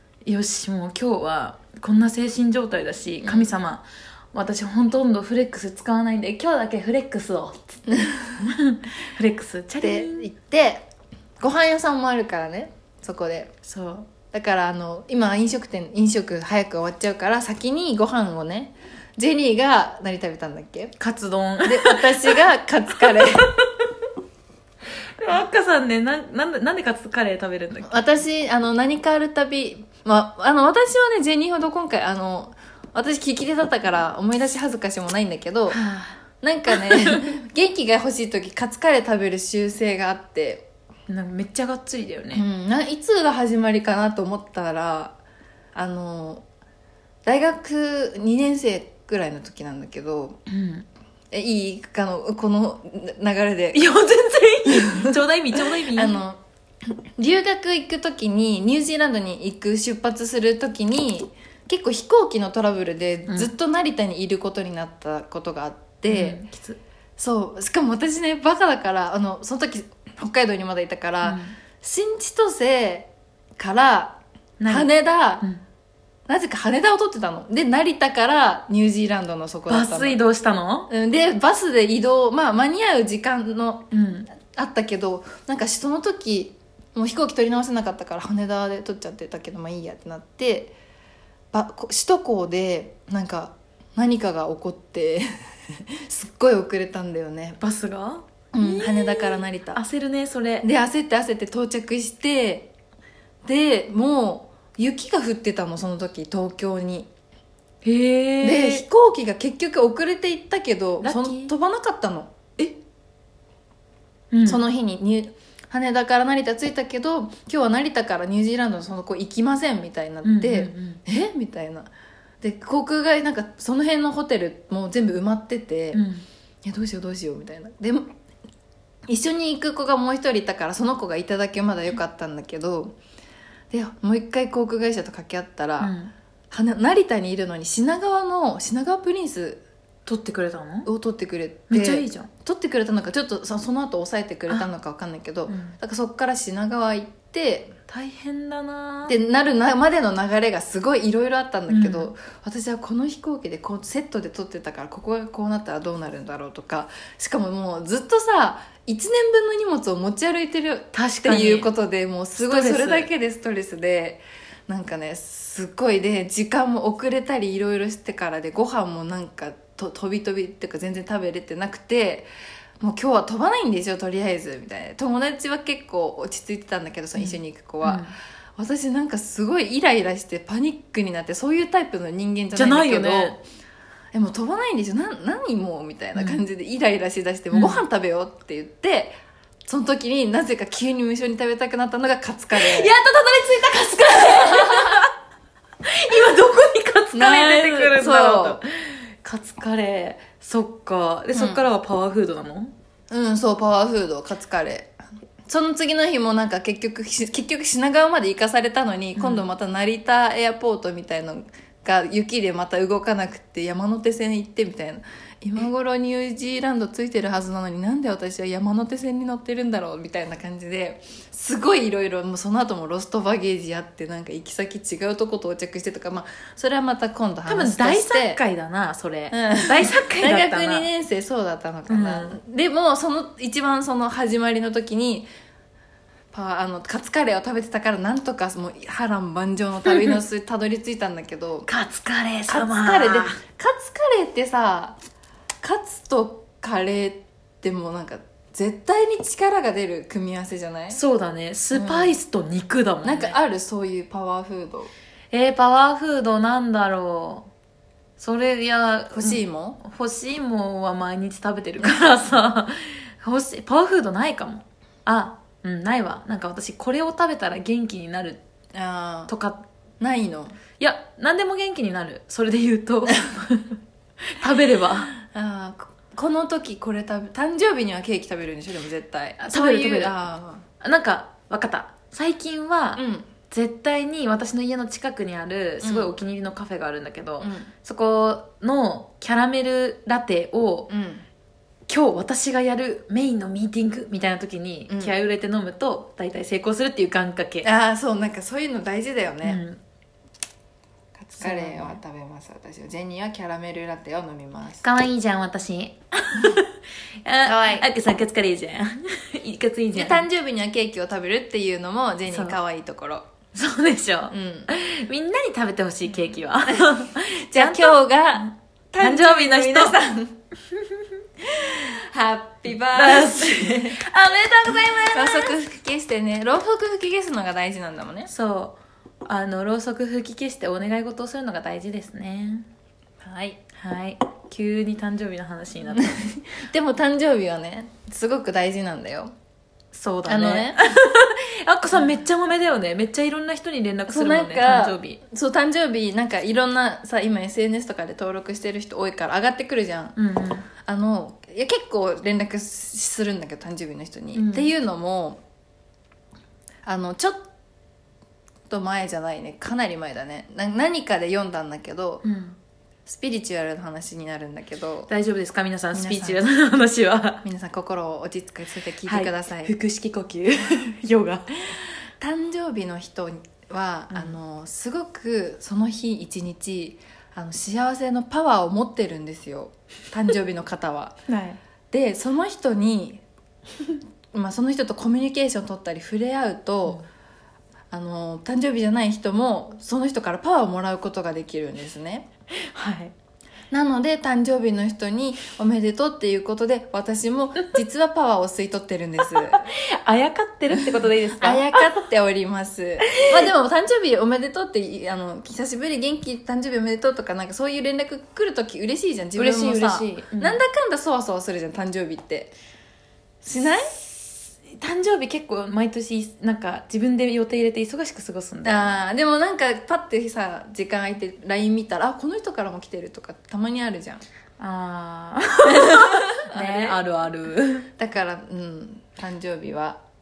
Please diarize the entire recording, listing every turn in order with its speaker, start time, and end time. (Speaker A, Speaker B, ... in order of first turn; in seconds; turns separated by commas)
Speaker A: 0.2-7.8, Speaker B: 3.2-3.5, Speaker B: 7.9-8.5, Speaker A: 8.4-10.3, Speaker B: 9.8-10.8, Speaker B: 11.4-13.5, Speaker A: 13.6-14.1, Speaker B: 14.3-20.9, Speaker A: 21.0-22.4, Speaker B: 21.6-23.5, Speaker A: 23.0-23.9, Speaker A: 25.2-28.0, Speaker B: 27.9-35.8, Speaker A: 35.7-37.2, Speaker B: 36.4-40.7, Speaker A: 41.1-42.4, Speaker B: 42.3-45.2, Speaker B: 45.7-46.4, Speaker B: 47.2-50.4, Speaker A: 50.5-50.9, Speaker B: 51.3-53.8, Speaker A: 53.7-56.2, Speaker B: 54.7-55.1, Speaker B: 55.9-56.4, Speaker B: 57.2-66.4, Speaker A: 66.1-66.8, Speaker B: 67.2-75.4, Speaker A: 71.2-71.5, Speaker A: 74.6-75.6, Speaker B: 76.3-80.2, Speaker A: 79.7-80.9, Speaker B: 80.9-83.9, Speaker A: 83.9-84.3, Speaker B: 84.5-90.7, Speaker B: 91.5-95.3, Speaker B: 95.9-97.6, Speaker A: 97.6-100.7, Speaker B: 98.5-99.8, Speaker B: 100.6-102.7, Speaker B: 103.4-107.1, Speaker A: 107.8-108.8, Speaker B: 108.4-112.3, Speaker A: 111.0-111.5, Speaker A: 114.3-114.6, Speaker B: 114.4-121.9, Speaker A: 120.2-121.0, Speaker B: 122.4-126.0, Speaker A: 125.9-126.2, Speaker B: 126.6-128.1, Speaker B: 129.1-132.9, Speaker B: 133.7-135.9, Speaker A: 135.8-136.1, Speaker B: 136.5-139.6, Speaker A: 140.1-140.9, Speaker B: 140.8-147.8, Speaker A: 141.7-142.3, Speaker A: 145.5-145.7, Speaker A: 147.9-149.1, Speaker B: 149.1-172.3, Speaker A: 151.7-152.1, Speaker A: 160.9-161.7, Speaker A: 162.4-163.1, Speaker B: 172.8-178.1, Speaker A: 177.2-178.1, Speaker B: 178.6-183.4, Speaker A: 182.5-183.4, Speaker B: 184.1-192.9, Speaker A: 186.2-186.4, Speaker A: 187.5-187.8, Speaker A: 192.5-195.1, Speaker B: 194.4-195.0, Speaker A: 195.8-202.7, Speaker B: 197.1-198.6, Speaker B: 201.3-201.6, Speaker B: 203.1-204.9, Speaker B: 205.5-228.4, Speaker A: 209.2-209.4, Speaker A: 227.5-230.9, Speaker B: 229.3-235.3, Speaker A: 231.9-232.4, Speaker B: 236.3-241.7, Speaker A: 241.7-243.4, Speaker B: 242.5-245.0, Speaker B: 245.6-251.0, Speaker A: 250.9-253.3, Speaker B: 251.7-252.2, Speaker B: 253.0-254.9, Speaker A: 255.3-257.4, Speaker A: 258.2-268.4, Speaker B: 259.1-259.8, Speaker B: 268.7-269.3, Speaker A: 269.3-269.6, Speaker B: 270.0-270.6, Speaker A: 270.8-275.1, Speaker B: 275.1-280.6, Speaker A: 279.4-280.1, Speaker A: 280.8-290.9, Speaker B: 282.9-283.3, Speaker B: 285.8-286.1, Speaker B: 287.4-287.7, Speaker B: 290.9-291.2, Speaker A: 291.9-297.7, Speaker B: 297.6-299.6, Speaker A: 299.4-299.8, Speaker B: 301.2-304.8, Speaker A: 301.3-302.0, Speaker A: 304.8-306.7, Speaker A: 307.2-310.2, Speaker B: 307.4-307.9, Speaker B: 309.9-313.2, Speaker A: 312.3-312.6, Speaker A: 313.5-320.0, Speaker B: 314.3-314.7, Speaker B: 316.6-320.4, Speaker A: 320.7-321.0, Speaker B: 321.4-324.0, Speaker A: 322.7-325.5, Speaker B: 325.1-328.3, Speaker A: 328.3-332.6, Speaker B: 333.2-333.6, Speaker A: 333.7-336.2, Speaker B: 336.0-339.3, Speaker A: 339.9-345.2, Speaker B: 340.3-340.8, Speaker B: 344.1-350.2, Speaker A: 350.1-350.7, Speaker B: 350.8-355.4, Speaker A: 354.3-354.7, Speaker B: 356.9-357.5, Speaker B: 358.7-362.2, Speaker A: 362.2-362.6, Speaker B: 363.1-365.1, Speaker A: 365.1-367.4, Speaker B: 365.9-366.4, Speaker B: 367.4-369.7, Speaker A: 369.0-371.5, Speaker B: 372.2-381.2, Speaker A: 381.3-381.6, Speaker B: 381.9-383.2, Speaker B: 384.3-387.0, Speaker B: 387.9-392.3, Speaker A: 392.6-393.1, Speaker B: 393.7-399.7, Speaker A: 399.3-401.8, Speaker B: 401.3-412.5, Speaker A: 409.4-410.6, Speaker B: 413.4-413.9, Speaker A: 413.6-419.0, Speaker B: 418.6-424.2, Speaker A: 424.6-427.9, Speaker B: 425.6-427.0, Speaker B: 428.0-430.0